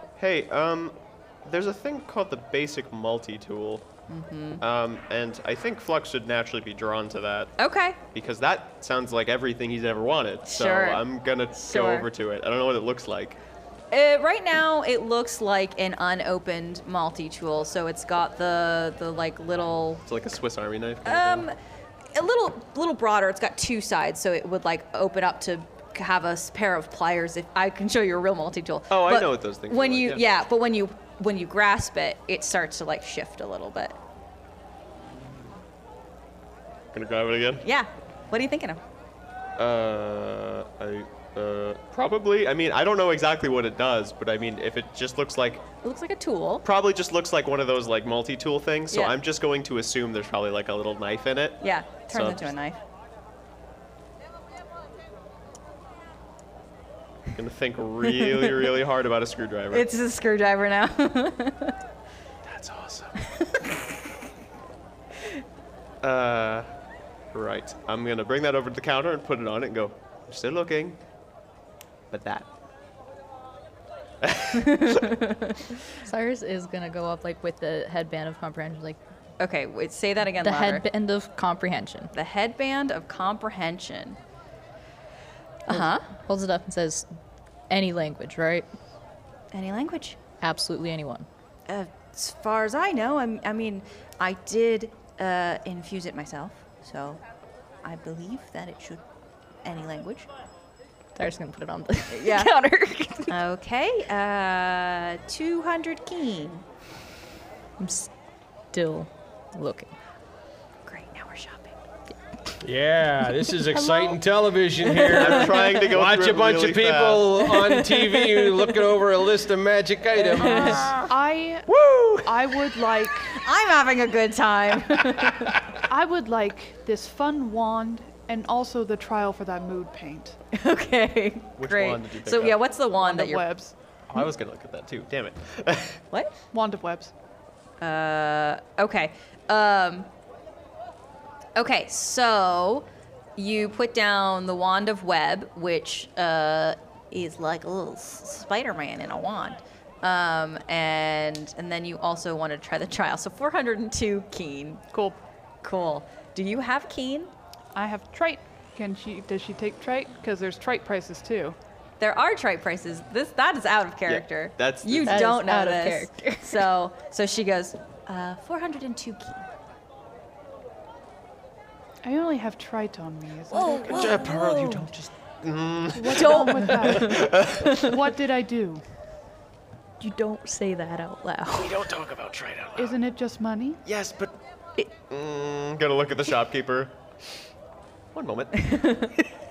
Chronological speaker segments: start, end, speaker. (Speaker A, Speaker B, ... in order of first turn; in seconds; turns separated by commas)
Speaker A: 0.2-3.9, Speaker B: 4.1-4.6, Speaker A: 4.6-7.5, Speaker B: 7.6-8.0, Speaker A: 8.1-13.4, Speaker B: 10.5-12.1, Speaker B: 13.9-20.0, Speaker A: 20.1-21.5, Speaker B: 21.1-21.6, Speaker B: 22.1-34.0, Speaker A: 28.9-30.4, Speaker A: 36.9-37.6, Speaker B: 37.6-38.8, Speaker A: 39.6-45.6, Speaker B: 45.8-46.6, Speaker A: 46.6-52.5, Speaker B: 48.9-49.2, Speaker B: 51.6-52.8, Speaker A: 57.3-59.9, Speaker B: 59.7-61.8, Speaker A: 62.4-63.2, Speaker A: 66.0-66.7, Speaker A: 67.3-71.0, Speaker A: 72.1-72.5, Speaker A: 74.2-75.2, Speaker C: 75.9-79.0, Speaker B: 79.4-80.8, Speaker C: 80.4-82.1, Speaker B: 82.1-84.2, Speaker B: 85.7-86.1, Speaker C: 85.7-87.1, Speaker C: 87.7-88.7, Speaker B: 89.5-90.2, Speaker C: 90.4-91.3, Speaker B: 91.7-97.2, Speaker B: 97.8-99.0, Speaker B: 99.6-100.3, Speaker C: 101.2-103.3, Speaker B: 102.1-102.5, Speaker B: 103.3-106.7, Speaker C: 107.8-108.1, Speaker C: 108.7-109.9, Speaker B: 110.9-111.8, Speaker D: 112.6-121.1, Speaker A: 115.1-117.4, Speaker B: 120.4-121.0, Speaker E: 120.5-121.7, Speaker D: 121.7-122.5, Speaker E: 122.2-123.4, Speaker B: 123.4-125.7, Speaker E: 125.9-130.4, Speaker B: 130.5-133.5, Speaker A: 131.6-132.7, Speaker E: 133.0-133.8, Speaker A: 134.1-136.0, Speaker B: 136.1-136.4, Speaker E: 136.5-137.1, Speaker B: 137.8-140.1, Speaker B: 141.6-154.8, Speaker E: 154.9-155.2, Speaker B: 155.6-157.3, Speaker E: 157.8-161.6, Speaker B: 162.0-169.5, Speaker A: 164.1-165.3, Speaker C: 165.0-166.7, Speaker E: 172.0-174.2, Speaker B: 173.5-174.7, Speaker A: 173.9-177.8, Speaker C: 173.9-174.4, Speaker E: 175.9-178.8, Speaker C: 176.0-178.0, Speaker C: 180.0-181.8, Speaker A: 181.6-183.0, Speaker E: 182.8-183.8, Speaker A: 183.8-184.4, Speaker A: 185.1-186.9, Speaker A: 188.1-188.9